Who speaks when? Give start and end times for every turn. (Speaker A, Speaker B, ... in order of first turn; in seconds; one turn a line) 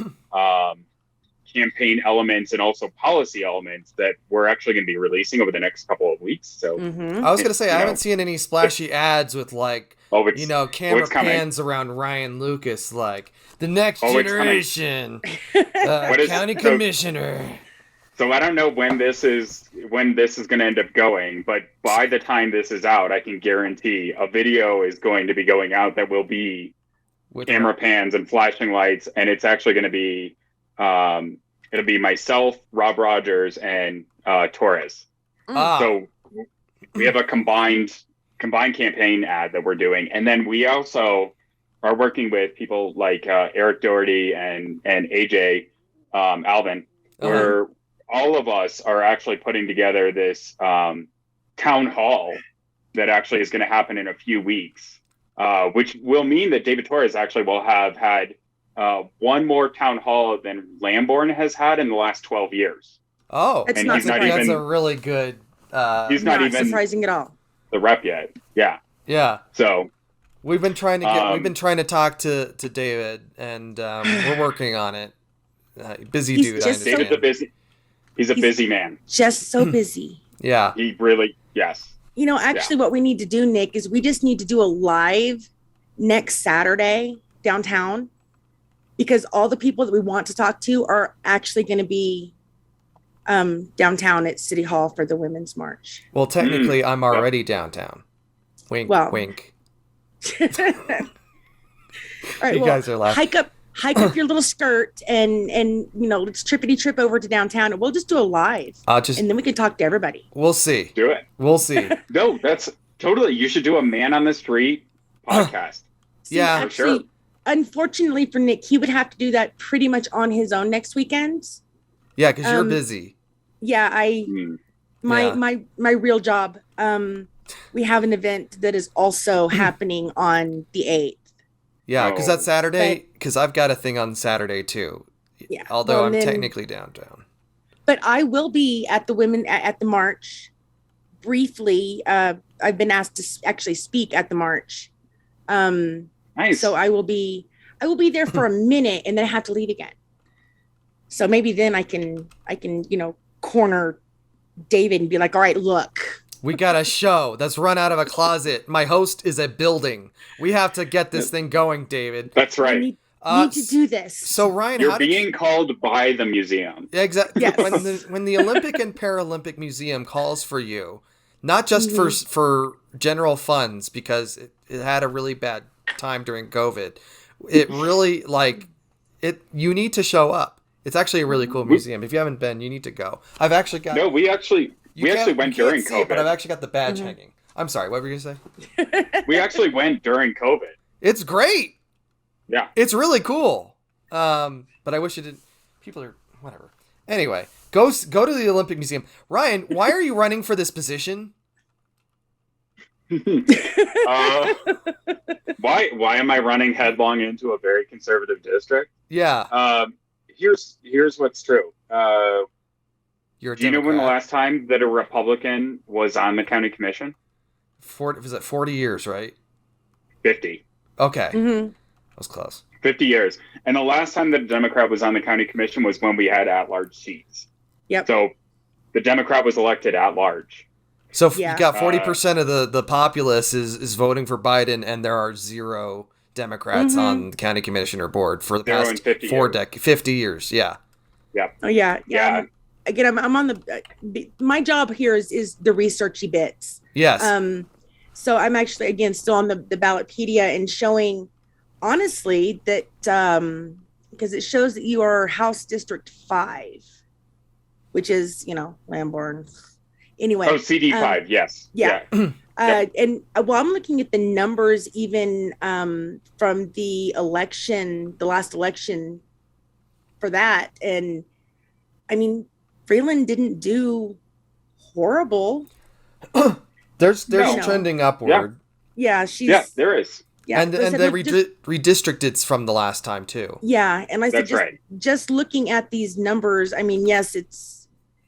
Speaker A: 0.3-0.8
Speaker A: 1.5-6.8
Speaker B: 6.8-7.3
Speaker C: 7.2-15.2
Speaker A: 7.4-8.0
Speaker A: 10.1-11.4
Speaker A: 14.0-14.7
Speaker B: 15.5-16.4
Speaker C: 15.8-17.6
Speaker A: 16.1-16.9
Speaker A: 18.2-26.7
Speaker C: 27.3-27.7
Speaker A: 27.5-35.1
Speaker C: 35.5-36.0
Speaker A: 35.8-36.1
Speaker A: 36.9-52.4
Speaker C: 47.2-47.5
Speaker A: 52.9-63.0
Speaker C: 63.3-66.2
Speaker B: 63.7-64.6
Speaker A: 63.8-64.6
Speaker A: 66.1-66.8
Speaker B: 66.2-67.3
Speaker A: 67.7-68.8
Speaker C: 69.1-69.4
Speaker A: 69.5-69.9
Speaker C: 70.4-75.1
Speaker A: 71.0-71.5
Speaker C: 75.8-77.3
Speaker B: 76.3-77.2
Speaker A: 76.6-77.5
Speaker A: 78.2-79.0
Speaker B: 79.1-80.2
Speaker C: 80.4-80.8
Speaker A: 80.8-81.9
Speaker B: 82.2-88.1
Speaker B: 89.0-92.3
Speaker B: 93.3-96.0
Speaker C: 96.1-98.0
Speaker A: 96.4-97.2
Speaker C: 98.7-99.5
Speaker B: 98.9-99.3
Speaker B: 100.2-101.1
Speaker B: 102.4-110.3
Speaker C: 102.4-103.3
Speaker C: 108.9-109.2
Speaker C: 110.3-112.0
Speaker A: 111.0-111.2
Speaker A: 112.1-115.9
Speaker B: 116.3-121.6
Speaker C: 116.3-116.7
Speaker A: 116.5-117.0
Speaker C: 122.2-123.1
Speaker B: 122.4-122.8
Speaker B: 123.6-124.3
Speaker A: 124.3-124.6
Speaker B: 125.0-131.2
Speaker C: 125.1-125.4
Speaker C: 131.9-137.2
Speaker A: 132.0-132.5
Speaker B: 135.5-136.5
Speaker B: 137.9-140.5
Speaker B: 141.2-144.9
Speaker B: 145.5-149.9
Speaker A: 146.4-146.7
Speaker B: 151.1-154.0
Speaker B: 154.7-156.2
Speaker C: 156.4-162.3
Speaker A: 162.3-162.9
Speaker B: 162.6-164.5
Speaker C: 163.2-165.2
Speaker A: 164.8-166.9
Speaker C: 166.9-178.7
Speaker B: 167.4-168.6
Speaker B: 171.8-172.2
Speaker C: 179.2-184.1
Speaker A: 183.9-186.3
Speaker C: 185.0-188.4
Speaker B: 186.9-187.2
Speaker B: 188.8-189.6
Speaker A: 189.3-190.8
Speaker C: 191.0-191.8
Speaker C: 192.8-201.3
Speaker A: 203.1-204.6
Speaker B: 203.5-205.1
Speaker A: 205.6-208.9
Speaker C: 209.1-209.5
Speaker A: 209.5-212.4
Speaker C: 213.4-214.2
Speaker A: 213.6-217.2
Speaker C: 217.8-219.3
Speaker A: 220.2-220.6
Speaker C: 221.0-221.4
Speaker B: 221.3-221.7
Speaker C: 222.2-222.6
Speaker A: 222.8-227.5
Speaker A: 228.1-228.3
Speaker A: 228.9-230.7
Speaker C: 231.1-240.8
Speaker B: 231.3-231.7
Speaker A: 231.7-232.2
Speaker B: 236.7-237.3
Speaker A: 238.7-239.6
Speaker B: 241.6-251.3
Speaker A: 242.1-242.4
Speaker C: 246.9-247.3
Speaker B: 251.8-256.8
Speaker B: 257.9-259.5
Speaker B: 260.2-261.2
Speaker A: 260.4-262.1
Speaker B: 261.7-262.0
Speaker B: 262.6-269.2
Speaker B: 270.2-271.2
Speaker B: 272.1-274.2
Speaker B: 274.9-275.7
Speaker C: 276.3-278.6
Speaker B: 277.3-277.9
Speaker A: 277.3-277.7
Speaker B: 279.0-279.7
Speaker A: 279.5-280.2
Speaker B: 280.5-281.4
Speaker C: 280.6-283.6
Speaker B: 283.6-287.9
Speaker A: 284.3-284.8